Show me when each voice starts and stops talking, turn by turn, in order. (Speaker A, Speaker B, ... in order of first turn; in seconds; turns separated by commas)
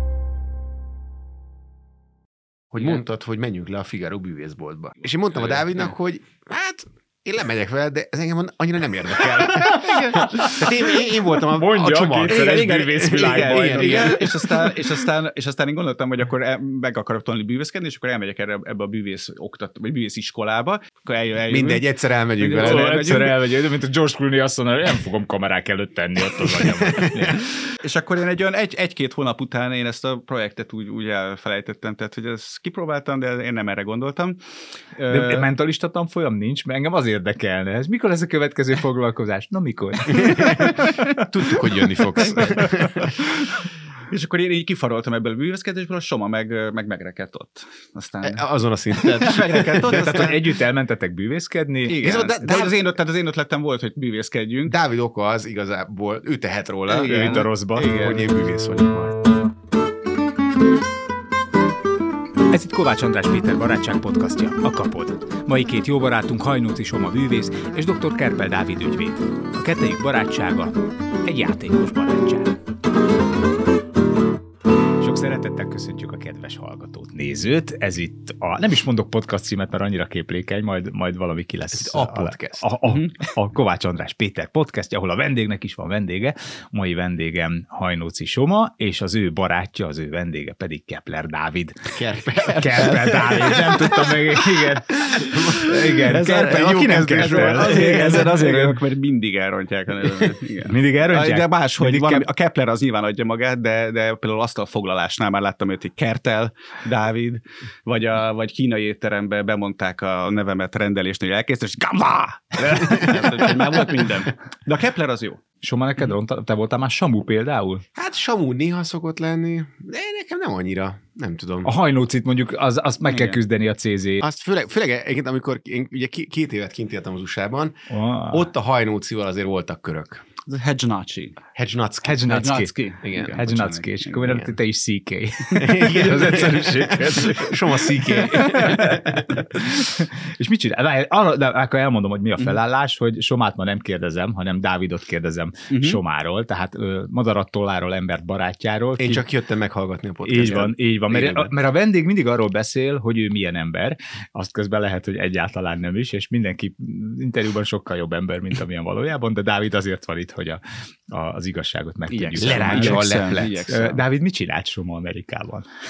Speaker A: 2.7-14.8, Speaker B: 5.3-5.9, Speaker C: 9.6-10.6, Speaker C: 11.5-14.3, Speaker B: 12.3-23.4, Speaker A: 21.5-23.2, Speaker C: 22.6-27.4, Speaker A: 26.4-27.4, Speaker B: 27.8-34.4, Speaker B: 35.0-35.5, Speaker C: 35.1-40.9, Speaker A: 40.1-43.1, Speaker B: 42.3-42.5, Speaker B: 44.1-50.5, Speaker A: 48.2-50.4, Speaker C: 49.9-52.0, Speaker B: 51.9-54.7, Speaker A: 52.0-52.9, Speaker A: 54.6-57.4, Speaker B: 56.9-58.3, Speaker C: 57.0-57.9, Speaker A: 57.9-59.3, Speaker C: 62.5-72.6, Speaker C: 75.0-98.8, Speaker A: 81.7-82.7, Speaker B: 82.8-83.1, Speaker A: 91.9-94.2, Speaker A: 95.1-98.4, Speaker B: 96.1-115.4, Speaker C: 100.7-102.2, Speaker A: 112.7-113.9, Speaker C: 115.6-117.8, Speaker A: 117.9-121.7, Speaker C: 121.6-124.2, Speaker B: 123.0-123.4, Speaker A: 124.2-130.2, Speaker C: 127.9-128.5, Speaker B: 130.5-131.4, Speaker A: 131.5-132.4, Speaker C: 132.0-137.6, Speaker B: 132.2-134.4, Speaker A: 133.0-133.4, Speaker A: 135.5-139.4, Speaker C: 138.1-149.2, Speaker B: 145.7-146.0, Speaker A: 149.0-151.5, Speaker C: 150.2-163.1, Speaker B: 162.1-164.0, Speaker A: 162.4-163.7, Speaker C: 163.7-165.7